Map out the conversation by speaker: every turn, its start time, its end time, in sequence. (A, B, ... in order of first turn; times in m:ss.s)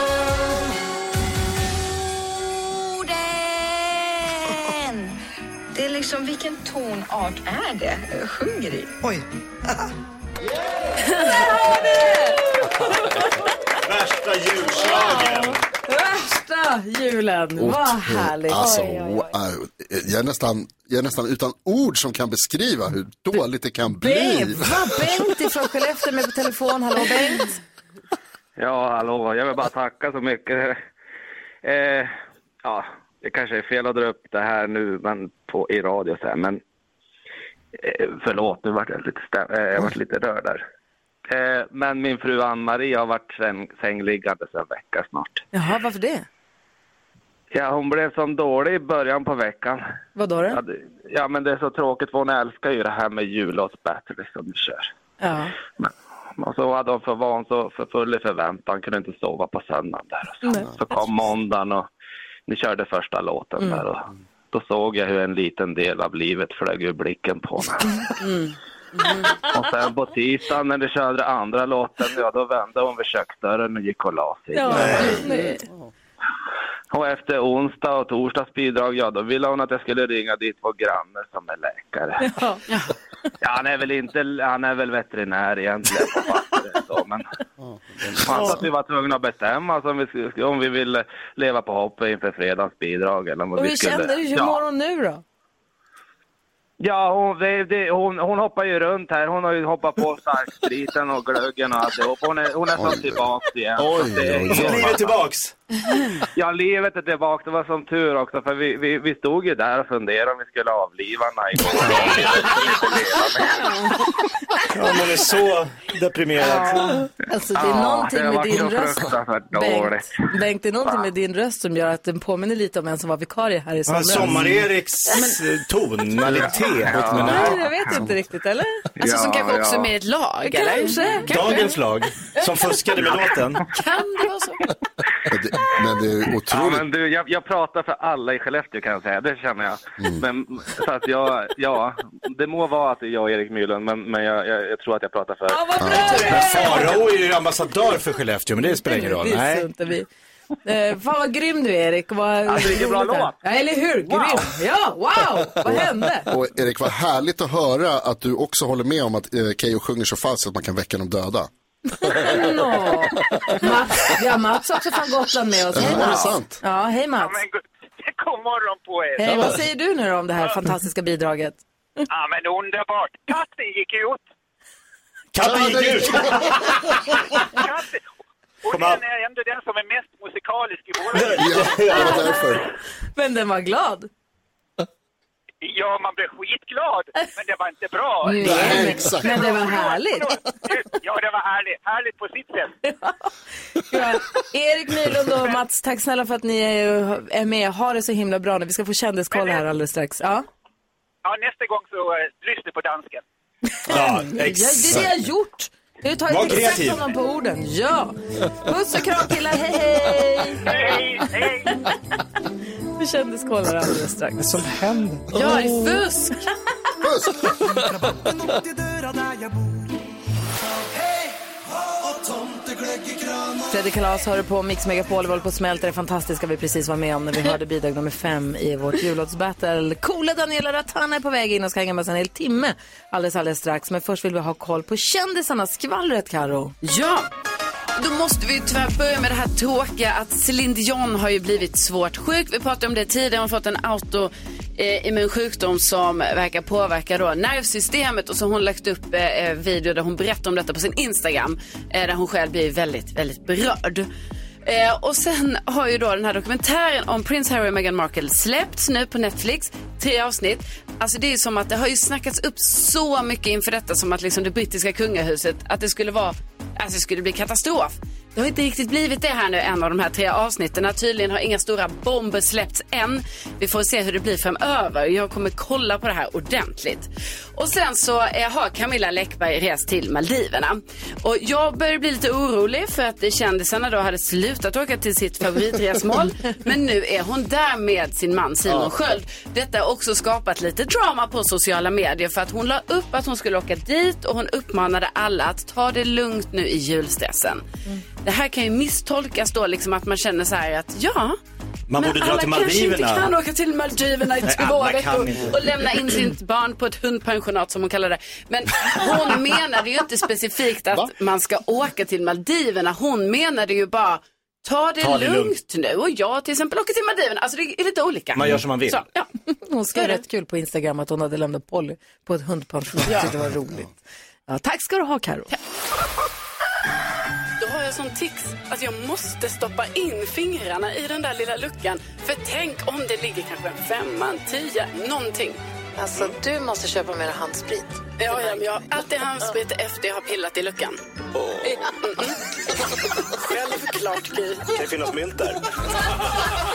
0:02.3-0:05.2 A
0:05.7-0:09.2 A
0:11.2-0:13.3 B
0:13.8-0:15.6 C
0:14.7-0:19.2 B
0:17.6-0:24.6 D
0:24.0-0:27.6 B
0:28.6-0:30.8 E
0:31.6-0:32.1 E
0:32.6-0:36.6 E
0:37.8-0:40.6 E
0:41.3-0:45.4 E
0:45.5-0:46.3 B
0:47.5-0:49.8 E
0:50.2-0:50.6 B
0:50.5-0:54.9 E
0:55.2-0:55.5 B
0:55.8-1:01.8 E
1:00.4-1:00.7 B
1:02.5-1:08.0 E
1:09.5-1:15.1 E
1:14.5-1:15.6 B
1:14.7-1:15.2 C
1:16.9-1:22.3 E
1:22.2-1:22.6 B
1:23.4-1:27.2 E
1:27.6-1:28.6 D
1:28.2-1:34.6 E
1:33.6-1:35.2 B
1:36.8-1:45.1 E
1:42.7-1:45.0 D
1:44.5-1:45.5 C
1:46.4-1:53.7 E
1:54.7-1:57.0 C
1:56.4-2:04.3 B
1:57.5-2:00.1 E
2:03.9-2:07.6 C
2:06.2-2:08.1 D
2:06.2-2:07.5 E
2:07.1-2:08.8 B
2:09.0-2:09.9 E
2:09.0-2:11.7 F
2:10.5-2:11.4 B
2:11.3-2:13.6 C
2:13.7-2:14.6 F
2:15.3-2:16.8 D
2:16.5-2:26.0 E
2:25.5-2:27.0 B
2:25.8-2:26.3 D
2:25.9-2:29.7 C
2:28.8-2:30.1 B
2:30.6-2:36.3 B
2:32.6-2:33.3 E
2:34.1-2:34.4 E
2:35.7-2:41.5 D
2:42.0-2:47.4 B
2:45.7-2:46.6 D
2:47.2-2:49.5 G
2:49.2-2:51.6 B
2:52.1-2:54.2 G
2:55.3-2:57.0 C
2:55.4-2:56.5 D
2:57.5-2:58.0 G
2:58.6-3:01.6 G
2:58.7-2:59.0 C
3:01.1-3:02.3 C
3:01.4-3:02.6 D
3:01.9-3:02.3 B
3:03.2-3:04.1 B
3:05.6-3:12.7 G
3:08.2-3:10.4 B
3:08.4-3:09.5 D
3:12.9-3:13.1 B
3:13.9-3:20.4 B
3:21.2-3:23.2 G
3:23.8-3:31.0 B
3:23.9-3:25.1 C
3:26.3-3:27.0 C
3:30.6-3:31.7 G
3:33.0-3:34.5 B
3:34.4-3:35.2 C
3:35.3-3:36.4 F
3:37.0-3:37.4 D
3:38.7-3:39.9 H
3:42.2-3:43.5 H
3:43.7-3:56.7 B
3:56.8-3:57.3 F
3:58.0-4:14.1 F
4:14.6-4:57.6 F
4:58.2-5:01.4 F
5:01.9-5:03.3 C
5:02.0-5:19.3 F
5:04.4-5:06.1 C
5:15.0-5:15.6 C
5:18.3-5:19.0 C
5:19.7-5:23.9 B
5:19.9-5:20.2 F
5:24.5-5:25.5 B
5:27.6-5:35.6 F
5:36.0-5:38.0 B
5:38.2-5:41.0 F
5:41.6-5:42.4 F
5:43.3-5:44.7 F
5:44.7-5:45.6 C